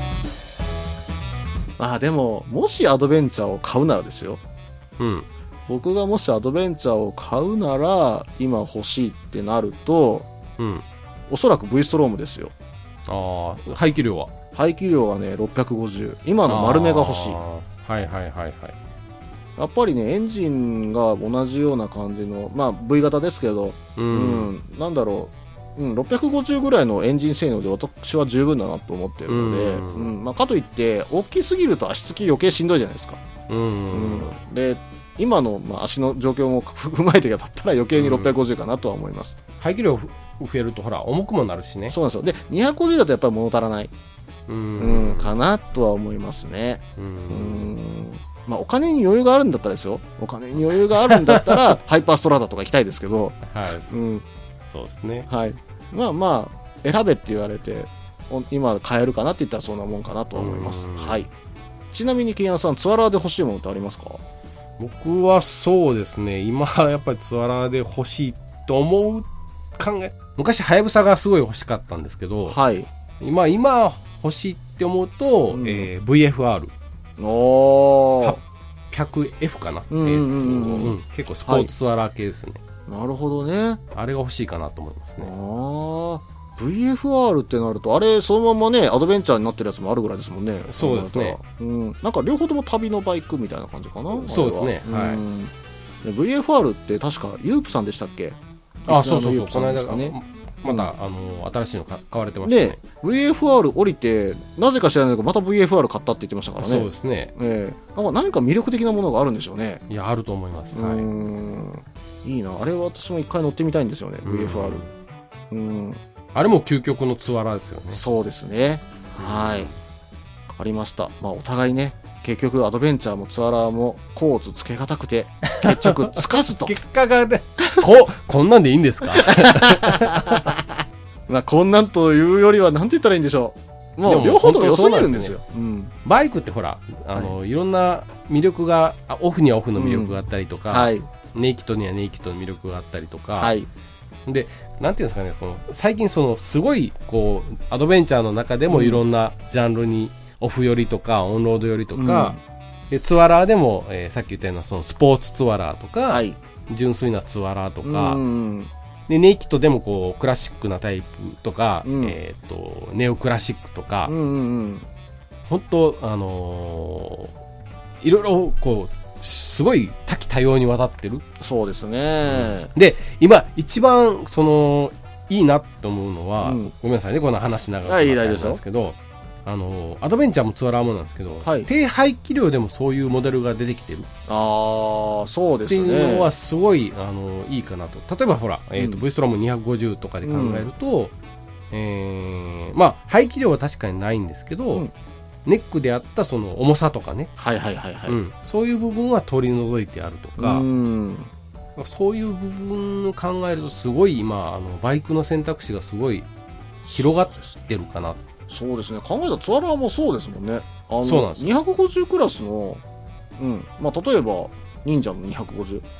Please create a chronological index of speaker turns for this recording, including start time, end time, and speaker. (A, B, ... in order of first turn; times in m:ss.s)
0:01.8-0:04.4 A
0:05.0-0:05.3 B
0:05.7-0:10.3 A
0:10.6-0:10.8 B
0:11.3-0:12.5 A
0:13.1-0:14.3 B
0:14.6-0:17.4 A
0:16.5-0:18.8 B
0:19.6-0:33.2 A
0:24.0-0:24.5 B
0:29.3-0:30.2 B
0:33.5-0:34.4 B
0:33.9-0:39.4 A
0:38.0-0:38.4 B
0:39.6-0:42.0 B
0:41.9-0:43.9 A
0:44.5-0:45.3 B
0:44.8-0:54.2 A
0:47.0-0:47.7 B
0:51.1-0:51.4 B
0:53.5-0:54.0 B
0:54.7-0:55.3 B
0:55.3-1:01.3 A
1:00.4-1:01.3 B
1:01.9-1:04.2 A
1:04.8-1:12.6 B
1:12.5-1:12.9 A
1:13.2-1:16.7 B
1:15.5-1:15.9 A
1:17.2-1:18.4 A
1:18.2-1:22.6 B
1:19.9-1:21.7 A
1:22.9-1:23.8 A
1:23.9-1:25.3 B
1:25.2-1:40.9 A
1:30.7-1:31.4 B
1:34.1-1:35.2 B
1:38.9-1:42.8 B
1:42.4-1:49.8 A
1:46.6-1:47.3 B
1:49.9-1:51.1 B
1:50.7-1:54.8 A
1:54.2-1:54.9 B
1:55.5-1:56.0 A
1:56.3-1:58.0 B
1:57.9-1:59.7 A
1:59.2-1:59.8 B
2:00.6-2:06.8 A
2:05.5-2:10.5 B
2:09.1-2:15.9 A
2:14.0-2:15.4 B
2:16.0-2:23.5 B
2:19.8-2:20.2 A
2:20.7-2:21.1 A
2:23.4-2:23.7 A
2:24.3-2:32.4 B
2:28.7-2:29.0 A
2:31.9-2:32.4 A
2:32.9-2:38.2 B
2:36.1-2:36.4 A
2:37.8-2:38.7 A
2:39.1-2:44.1 B
2:41.8-2:42.2 A
2:44.0-2:44.9 A
2:45.5-2:47.3 B
2:48.0-2:51.2 B
2:51.4-2:52.7 A
2:52.2-3:04.1 B
2:56.4-2:56.7 A
2:57.9-2:58.6 A
3:01.4-3:01.7 A
3:04.3-3:06.3 A
3:05.7-3:11.1 B
3:08.8-3:09.0 A
3:10.2-3:10.7 A
3:11.7-3:14.8 B
3:15.4-3:17.3 B
3:17.4-3:18.2 A
3:18.1-3:20.6 B
3:20.4-3:21.3 A
3:21.8-3:26.3 B
3:26.8-3:27.5 A
3:27.0-3:28.2 B
3:28.5-3:32.8 A
3:31.0-3:31.5 B
3:33.4-3:35.8 A